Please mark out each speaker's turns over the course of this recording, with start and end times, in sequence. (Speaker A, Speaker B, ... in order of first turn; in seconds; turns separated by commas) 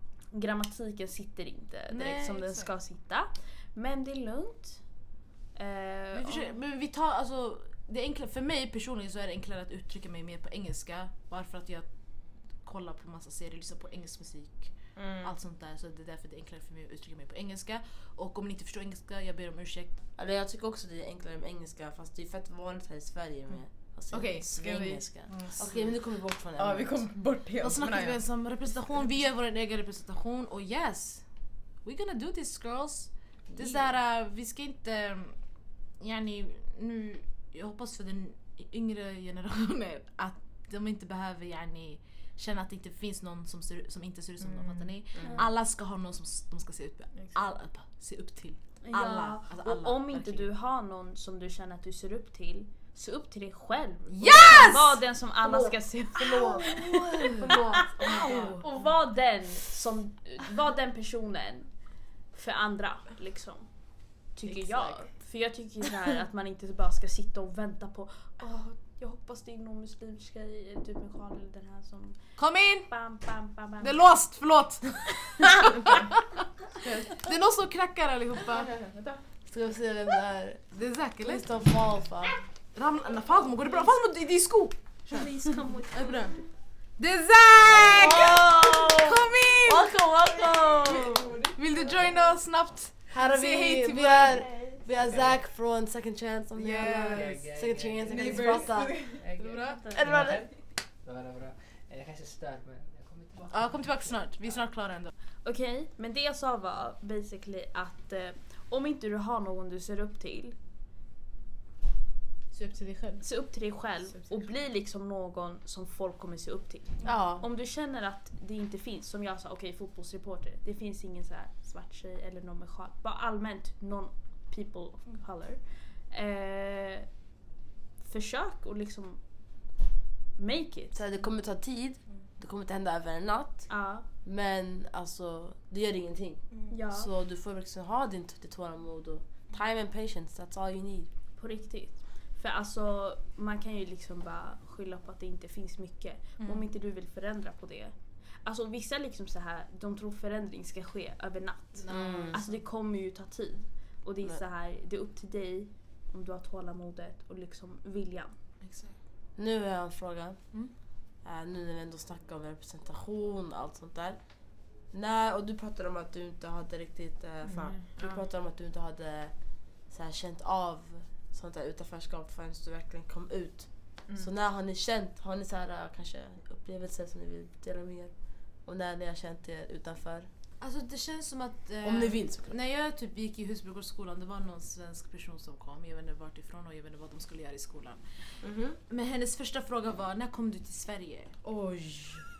Speaker A: 0.3-6.5, Speaker B: 1.9-2.7, Speaker B: 6.1-19.9, Speaker C: 14.9-15.3, Speaker D: 20.1-27.2, Speaker C: 24.1-25.3, Speaker B: 25.3-26.0, Speaker C: 26.5-29.2, Speaker B: 27.6-50.5, Speaker D: 33.5-33.9, Speaker C: 44.4-45.0, Speaker D: 45.1-45.5, Speaker C: 47.1-47.4, Speaker A: 48.8-57.4, Speaker B: 54.1-55.1, Speaker D: 55.4-58.6, Speaker A: 58.0-74.4, Speaker B: 58.0-58.4, Speaker C: 58.0-58.6, Speaker B: 64.4-65.1, Speaker B: 72.4-73.2, Speaker B: 73.8-75.6, Speaker B: 77.0-78.7, Speaker D: 79.4-82.4, Speaker B: 80.7-81.5, Speaker B: 82.7-90.0, Speaker A: 85.1-86.5, Speaker D: 87.8-91.3, Speaker E: 91.4-92.2, Speaker B: 91.5-94.5, Speaker D: 93.1-99.2, Speaker E: 95.1-95.4, Speaker B: 96.6-97.5, Speaker E: 96.8-104.7, Speaker C: 98.1-99.2, Speaker B: 98.5-99.9, Speaker A: 99.7-100.0, Speaker D: 99.9-100.6, Speaker B: 103.5-105.1, Speaker A: 105.4-110.5, Speaker B: 112.5-113.6, Speaker A: 113.2-127.2, Speaker D: 117.0-117.5, Speaker A: 128.0-129.8, Speaker A: 130.3-131.2, Speaker D: 130.9-141.1, Speaker A: 133.7-134.1, Speaker A: 136.7-137.1, Speaker A: 141.3-158.4, Speaker B: 146.4-146.7, Speaker B: 151.8-152.6, Speaker D: 151.9-152.4, Speaker B: 158.6-159.0, Speaker D: 159.3-180.3, Speaker C: 167.4-168.2, Speaker B: 180.6-191.4, Speaker D: 181.8-182.6, Speaker D: 188.4-188.8, Speaker D: 191.4-192.3